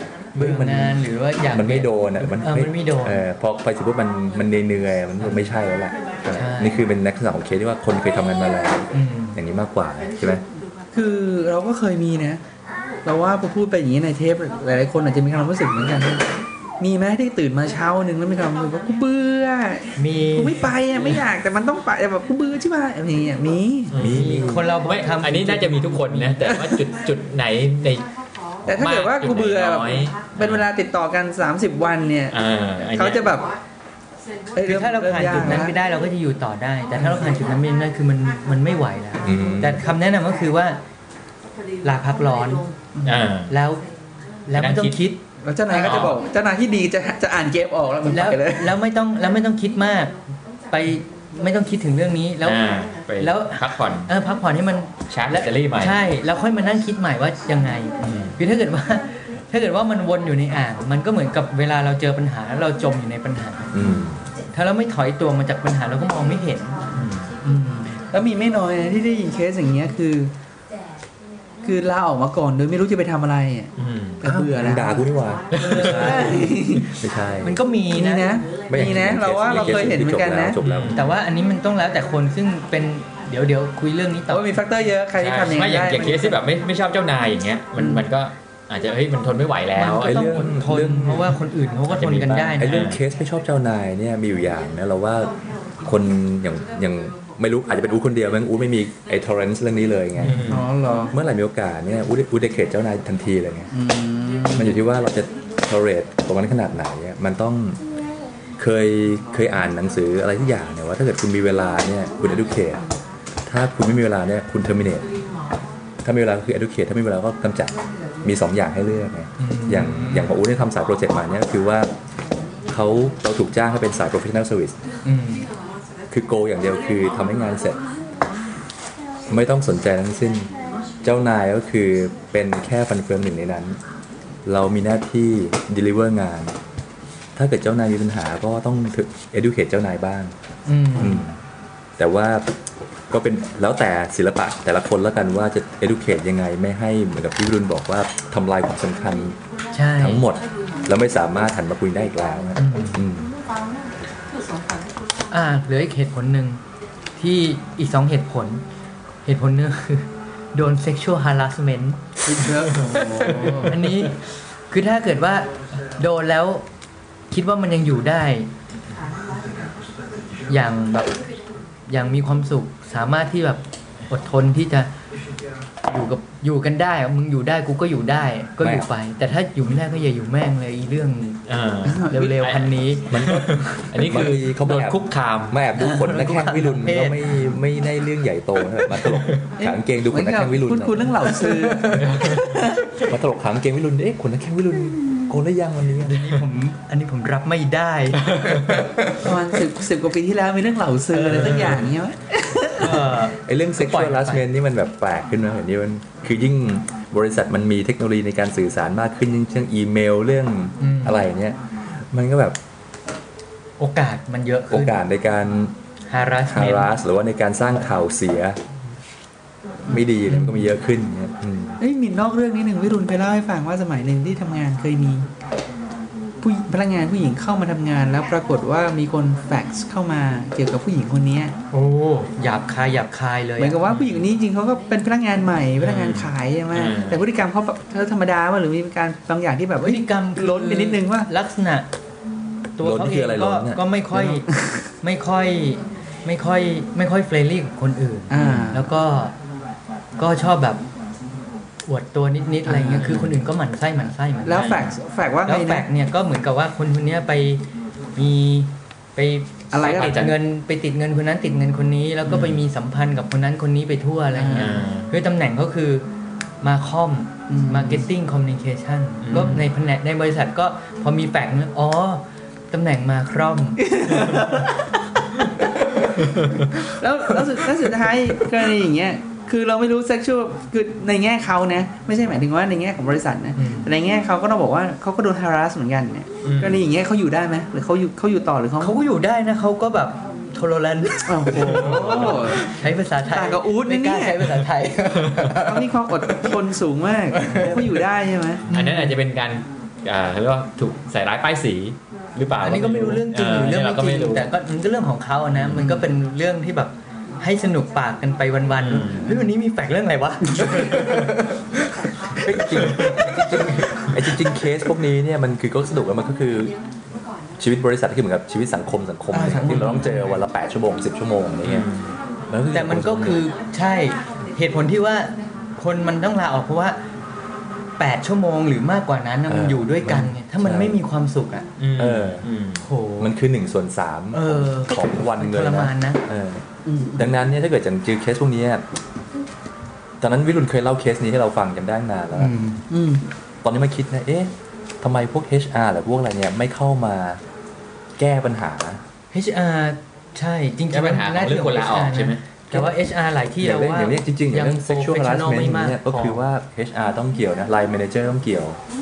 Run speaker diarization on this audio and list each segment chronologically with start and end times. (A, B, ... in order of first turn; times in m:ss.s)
0:00.3-0:10.4 A
0:00.3-0:03.2 B
0:06.3-0:06.8 B
0:08.9-0:09.4 B
0:10.9-0:12.4 C
0:13.0-0:16.3 C
0:16.8-0:23.9 C
0:20.0-0:20.7 B
0:23.9-0:28.1 D
0:23.9-0:24.7 A
0:24.1-0:26.4 B
0:26.5-0:26.8 C
0:28.6-0:32.4 C
0:28.7-0:30.7 D
0:32.3-0:33.3 D
0:32.9-0:33.5 C
0:34.5-0:35.7 C
0:34.6-0:40.8 B
0:37.0-0:37.2 C
0:39.2-0:39.8 A
0:41.8-0:42.7 B
0:42.9-0:43.3 C
0:43.0-0:43.5 D
0:43.5-0:43.8 B
0:44.5-0:46.1 B
0:44.5-0:45.0 D
0:45.4-0:48.8 C
0:45.8-0:46.2 D
0:48.1-0:50.1 B
0:50.7-1:03.8 B
0:52.4-0:54.1 D
0:55.1-0:56.0 D
0:58.0-0:58.4 D
1:03.7-1:04.2 A
1:04.5-1:06.8 B
1:06.9-1:07.3 D
1:07.4-1:10.3 C
1:11.6-1:15.0 C
1:13.8-1:14.2 D
1:14.2-1:17.6 A
1:15.5-1:16.3 D
1:15.6-1:16.9 C
1:15.8-1:16.2 B
1:17.4-1:18.3 B
1:17.9-1:20.6 C
1:18.7-1:21.0 A
1:19.5-1:19.8 D
1:20.6-1:21.1 D
1:20.9-1:24.4 B
1:24.3-1:26.4 C
1:25.2-1:30.5 D
1:27.8-1:28.0 C
1:29.8-1:32.8 B
1:29.9-1:31.4 A
1:31.9-1:33.0 D
1:32.1-1:40.6 A
1:40.2-1:40.7 D
1:40.5-1:41.1 C
1:41.1-1:43.7 A
1:43.7-1:44.8 C
1:44.5-1:47.8 A
1:48.6-1:52.8 A
1:53.4-1:55.1 A
1:56.0-2:01.9 A
1:59.4-2:00.3 B
2:02.7-2:04.8 A
2:05.0-2:05.5 B
2:06.1-2:07.8 A
2:09.3-2:10.5 A
2:11.0-2:13.8 A
2:14.4-2:16.6 A
2:17.4-2:20.3 A
2:20.6-2:21.2 B
2:21.0-2:21.4 A
2:22.0-2:22.5 A
2:23.1-2:29.4 A
2:29.7-2:30.2 B
2:30.0-2:33.3 A
2:32.6-2:33.0 B
2:35.3-2:36.6 B
2:37.2-2:38.6 B
2:39.2-2:42.0 B
2:42.2-2:43.8 C
2:42.6-2:43.7 D
2:43.6-2:46.6 B
2:47.3-2:48.5 B
2:50.5-2:51.2 B
2:51.9-2:54.9 B
2:55.9-3:01.4 B
2:58.6-2:58.9 A
3:01.5-3:05.6 D
3:01.8-3:02.3 C
3:02.1-3:03.2 B
3:03.1-3:11.2 A
3:05.8-3:07.3 B
3:09.6-3:13.0 C
3:11.4-3:12.2 B
3:12.0-3:12.4 D
3:13.0-3:16.3 A
3:16.0-3:19.2 B
3:18.3-3:18.8 D
3:19.2-3:23.1 C
3:21.1-3:21.8 B
3:21.3-3:21.8 D
3:22.8-3:24.4 B
3:23.2-3:31.6 A
3:30.8-3:31.2 B
3:32.1-3:32.6 A
3:33.8-3:34.9 B
3:34.7-3:35.7 A
3:36.1-3:36.9 B
3:36.5-3:38.6 A
3:39.8-3:41.8 A
3:40.3-3:40.7 B
3:41.8-3:45.3 C
3:46.4-3:51.5 C
3:51.7-3:53.8 B
3:53.6-4:01.3 C
3:53.9-3:54.3 D
3:55.8-3:57.2 D
3:59.8-4:01.9 B
4:02.8-4:04.5 B
4:02.8-4:03.8 A
4:04.1-4:04.8 C
4:05.0-4:09.3 B
4:08.3-4:08.9 C
4:08.4-4:08.7 A
4:10.2-4:10.8 B
4:11.9-4:14.8 B
4:12.6-4:13.2 C
4:13.0-4:13.3 D
4:14.4-4:15.9 C
4:14.5-4:14.9 D
4:15.4-4:17.6 B
4:18.2-4:26.1 B
4:19.7-4:20.3 C
4:19.8-4:20.3 D
4:22.3-4:22.6 D
4:24.3-4:24.8 C
4:24.5-4:25.1 D
4:26.6-4:33.8 B
4:27.5-4:28.1 C
4:29.2-4:29.6 D
4:33.8-4:34.8 C
4:37.0-4:49.0 C
4:43.6-4:43.9 B
4:46.4-4:46.8 D
4:48.8-4:56.5 B
4:51.3-4:52.7 C
4:51.5-4:52.6 D
4:53.3-4:54.6 C
4:55.2-4:55.6 D
4:55.6-4:58.6 C
4:57.4-4:57.9 B
4:58.7-5:04.5 D
4:58.7-4:59.1 B
5:02.6-5:11.8 B
5:08.8-5:09.3 D
5:12.4-5:14.1 B
5:12.4-5:16.8 A
5:17.6-5:21.9 A
5:19.3-5:20.3 B
5:21.6-5:22.2 D
5:22.5-5:23.4 A
5:22.7-5:27.0 B
5:28.0-5:31.6 B
5:29.5-5:31.0 A
5:31.8-5:32.8 D
5:32.0-5:32.5 A
5:32.8-5:33.3 B
5:33.2-5:38.8 A
5:34.3-5:36.2 B
5:36.8-5:37.3 C
5:40.2-5:42.5 A
5:42.3-5:42.8 B
5:42.9-5:43.2 C
5:43.6-5:47.4 A
5:48.2-5:49.0 A
5:49.3-5:56.4 B
5:50.9-5:52.4 D
5:53.6-5:58.8 A